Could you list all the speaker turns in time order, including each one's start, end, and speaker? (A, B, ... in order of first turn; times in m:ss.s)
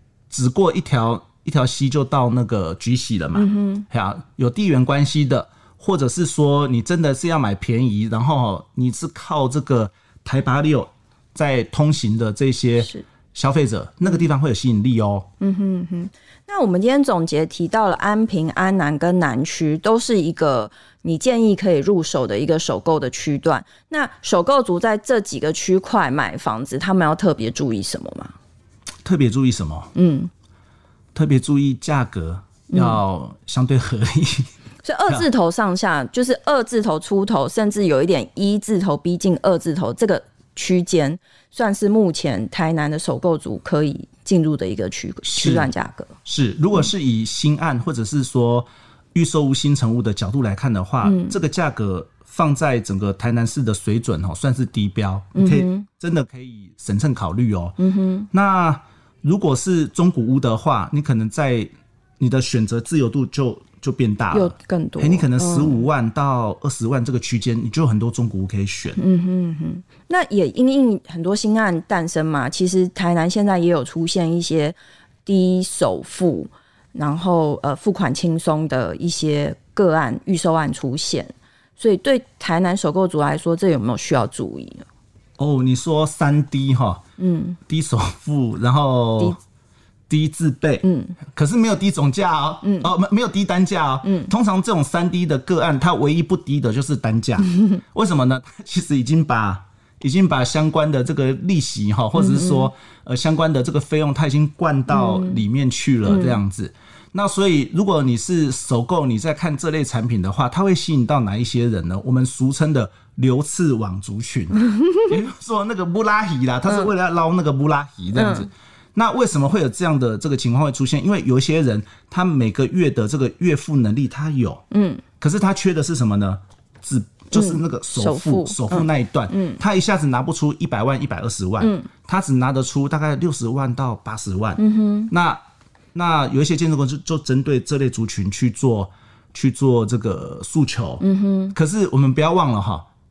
0:00.3-0:15.3 A
0:03.4-0:03.8 B
0:12.8-0:13.0 B
0:15.4-0:28.4 B
0:29.0-0:29.9 A
0:30.0-0:30.3 B
0:31.1-0:34.5 A
0:32.7-0:33.0 B
0:34.8-0:46.2 B
0:45.2-0:45.7 A
0:46.2-0:57.8 A
0:51.0-0:51.4 B
0:55.4-0:55.9 B
0:57.8-0:58.3 B
0:58.3-1:09.0 A
1:04.3-1:05.8 B
1:09.0-1:24.9 B
1:25.4-1:27.0 A
1:27.2-1:27.6 B
1:27.7-1:29.4 A
1:30.1-2:04.6 A
1:30.8-1:31.2 B
1:32.6-1:32.9 B
1:34.0-1:34.3 B
1:42.2-1:42.7 B
1:44.9-1:45.4 B
1:46.1-1:46.4 B
1:54.6-1:55.0 B
1:58.2-1:58.5 B
2:04.7-2:05.0 B
2:05.2-2:15.4 A
2:07.3-2:09.6 B
2:11.6-2:11.9 B
2:14.6-2:15.1 B
2:15.9-2:22.9 A
2:21.0-2:21.6 B